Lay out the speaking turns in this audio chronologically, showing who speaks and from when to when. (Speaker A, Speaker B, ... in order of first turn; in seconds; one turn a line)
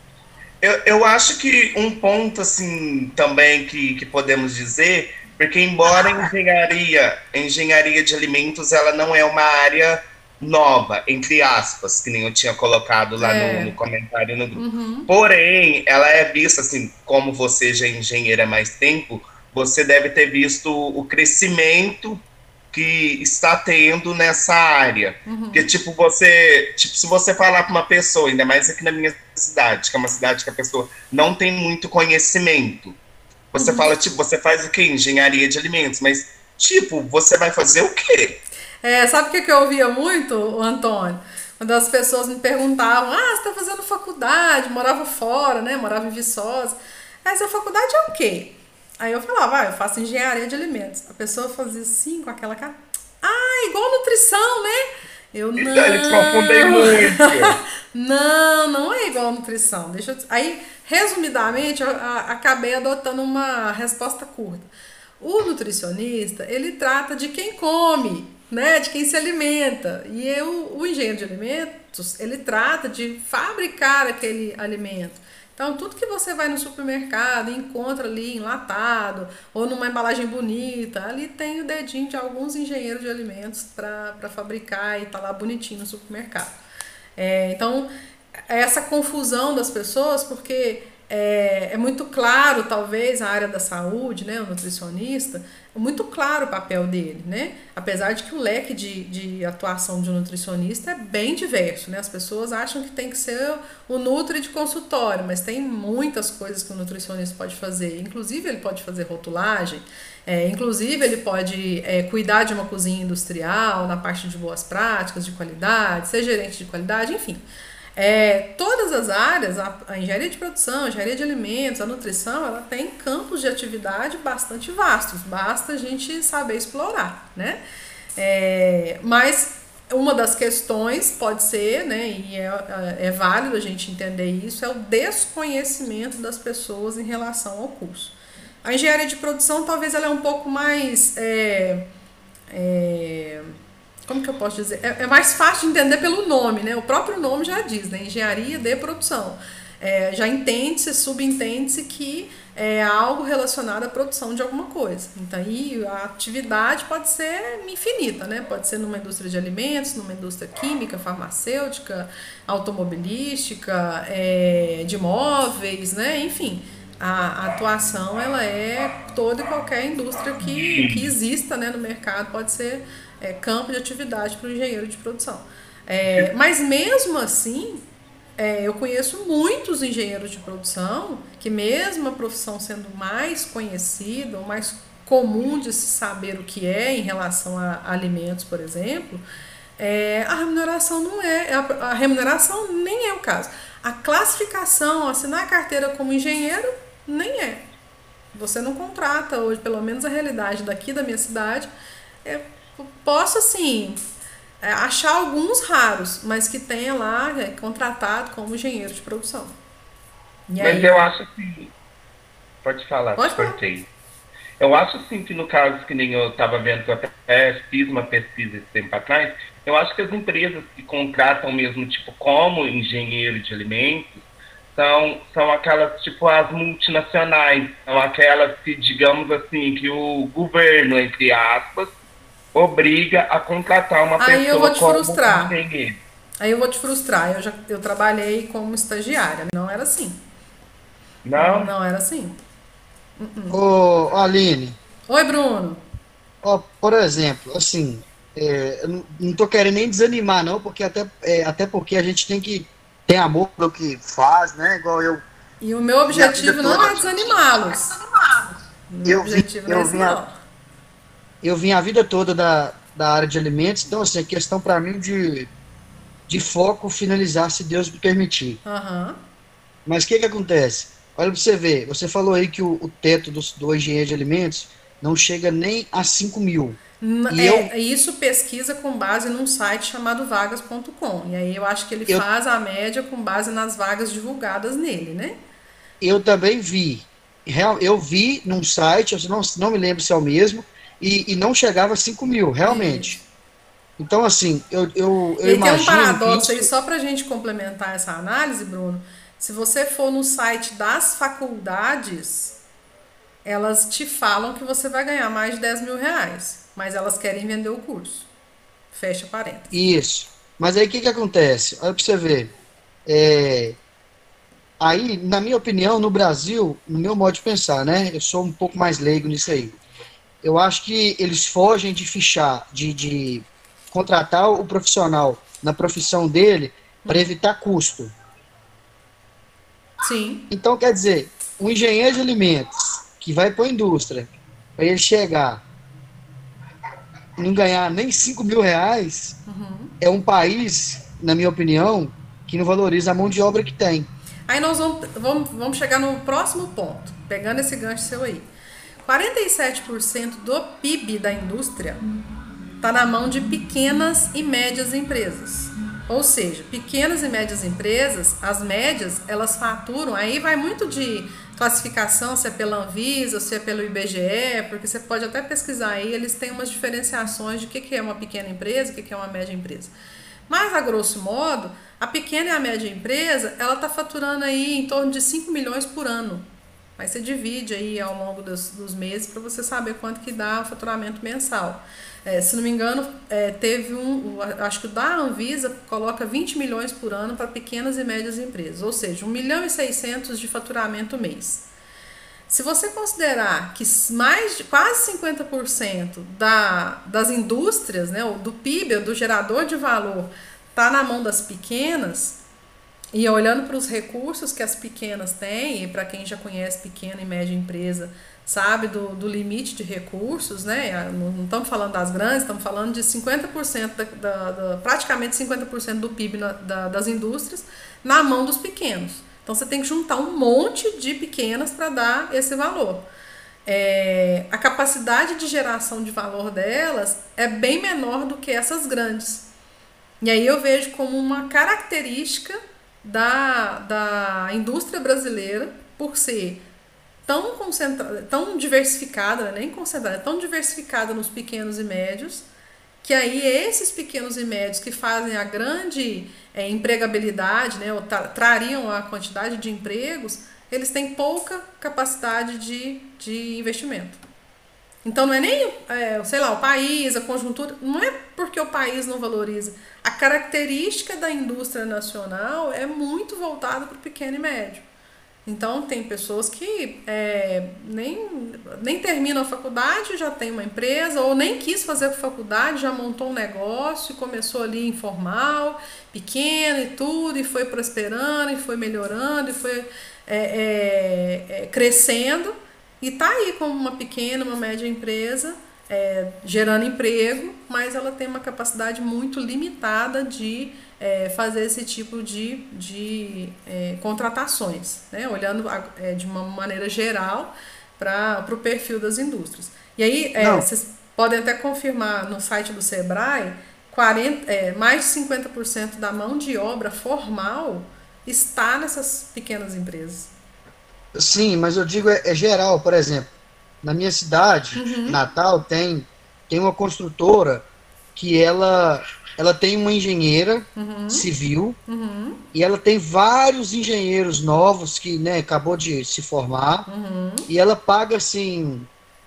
Speaker A: 0.6-33.0
Speaker B: 13.2-13.8
Speaker B: 14.6-15.1
Speaker B: 25.2-25.7
Speaker A: 33.5-38.4
Speaker B: 33.6-33.9
Speaker B: 38.8-64.7
Speaker A: 55.6-57.6
Speaker B: 65.2-86.6
Speaker B: 87.2-87.9
Speaker B: 88.5-117.4
Speaker B: 118.0-127.6
Speaker B: 128.2-141.9
Speaker B: 142.5-143.5
Speaker B: 144.1-177.8
Speaker A: 170.4-171.1
Speaker B: 178.4-189.2
Speaker B: 189.8-197.6
Speaker B: 198.3-201.7
Speaker B: 202.2-204.0
Speaker B: 204.6-209.6
Speaker B: 210.5-211.1
Speaker A: 210.6-211.7
Speaker A: 212.6-213.9
Speaker B: 213.2-213.6
Speaker A: 214.6-231.9
Speaker A: 232.5-236.0
Speaker B: 234.2-235.5
Speaker B: 236.4-240.2
Speaker A: 241.2-241.7
Speaker B: 241.3-242.4
Speaker B: 243.2-243.6
Speaker C: 243.5-244.8
Speaker B: 245.1-245.8
Speaker C: 246.4-255.2
Speaker B: 255.6-257.9
Speaker C: 256.1-257.7
Speaker B: 258.9-260.4
Speaker C: 259.0-260.2
Speaker C: 261.4-265.5
Speaker C: 266.3-268.6
Speaker B: 268.6-269.2
Speaker C: 269.9-277.7
Speaker B: 277.0-285.4
Speaker C: 286.0-293.2
Speaker B: 292.6-293.2
Speaker C: 294.0-296.7
Speaker B: 295.4-302.6
Speaker B: 303.4-308.3
Speaker B: 308.9-309.7
Speaker C: 309.7-312.5
Speaker C: 313.1-313.8
Speaker C: 314.8-319.8
Speaker C: 320.4-328.1
Speaker B: 327.1-327.3
Speaker B: 330.0-330.4
Speaker C: 330.5-335.6
Speaker C: 337.4-339.4
Speaker B: 339.4-339.9
Speaker C: 340.0-344.1
Speaker B: 344.5-348.5
Speaker B: 349.1-352.0
Speaker B: 352.8-369.9
Speaker B: 370.5-376.4
Speaker B: 377.0-391.7
Speaker B: 392.5-402.4
Speaker B: 403.1-423.1
Speaker B: 423.7-429.4
Speaker B: 430.2-436.6
Speaker B: 437.2-442.5
Speaker B: 443.0-454.2
Speaker B: 455.0-464.8
Speaker B: 465.4-510.3
Speaker C: 500.4-500.6
Speaker C: 511.1-513.3
Speaker C: 513.8-521.8
Speaker B: 514.8-515.2
Speaker B: 520.8-521.3
Speaker B: 521.9-522.4
Speaker C: 522.5-526.9
Speaker B: 526.9-527.5
Speaker C: 527.5-528.9